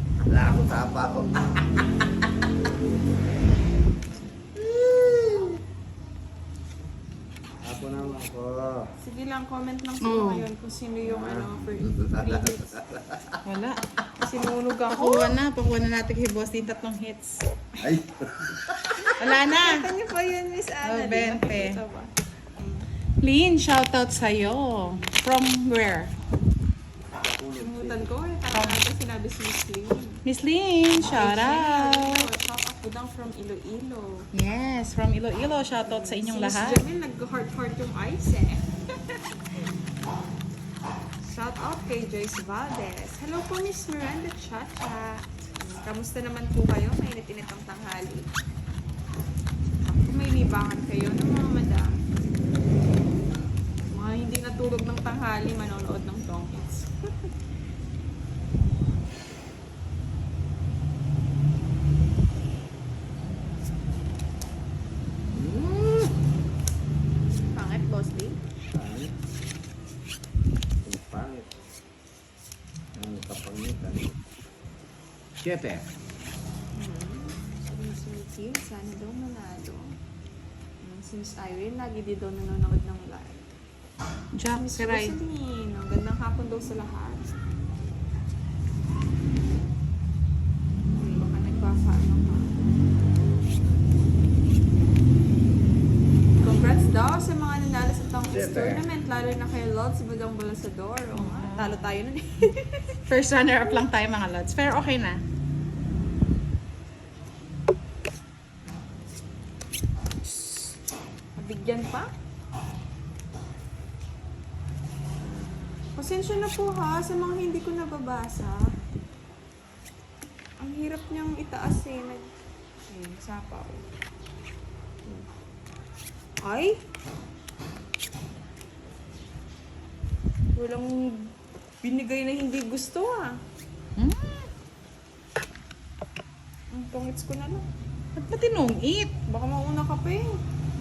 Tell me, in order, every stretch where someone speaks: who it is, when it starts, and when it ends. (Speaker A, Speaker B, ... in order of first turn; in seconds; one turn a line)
Speaker A: 0.2-1.7
Speaker A: 4.6-5.6
Speaker A: 7.6-8.8
Speaker B: 7.8-8.2
Speaker B: 9.0-12.8
Speaker C: 10.0-10.5
Speaker A: 11.0-13.4
Speaker C: 13.4-13.8
Speaker B: 14.2-15.4
Speaker C: 14.9-17.4
Speaker A: 17.8-19.1
Speaker B: 19.0-22.9
Speaker C: 19.2-19.8
Speaker C: 20.8-21.8
Speaker C: 23.2-26.1
Speaker A: 27.1-28.1
Speaker B: 27.6-30.2
Speaker C: 30.2-32.2
Speaker B: 31.0-34.3
Speaker C: 34.3-36.8
Speaker B: 35.8-40.2
Speaker B: 41.2-48.3
Speaker B: 49.8-51.9
Speaker B: 53.9-57.3
Speaker A: 65.3-66.2
Speaker B: 67.5-68.4
Speaker A: 68.7-69.1
Speaker A: 70.8-71.5
Speaker A: 73.0-74.2
Speaker A: 75.4-75.8
Speaker B: 76.7-79.9
Speaker B: 80.8-83.5
Speaker C: 84.3-85.1
Speaker B: 84.5-87.2
Speaker B: 90.9-92.7
Speaker B: 96.4-103.0
Speaker A: 98.3-98.8
Speaker C: 101.1-102.0
Speaker C: 103.1-105.2
Speaker B: 110.4-110.7
Speaker B: 111.3-112.1
Speaker B: 115.9-118.6
Speaker B: 120.6-122.3
Speaker B: 122.9-123.8
Speaker B: 126.4-126.8
Speaker B: 130.5-133.4
Speaker C: 134.0-134.3
Speaker B: 136.7-137.6
Speaker C: 138.2-139.1
Speaker B: 139.2-140.4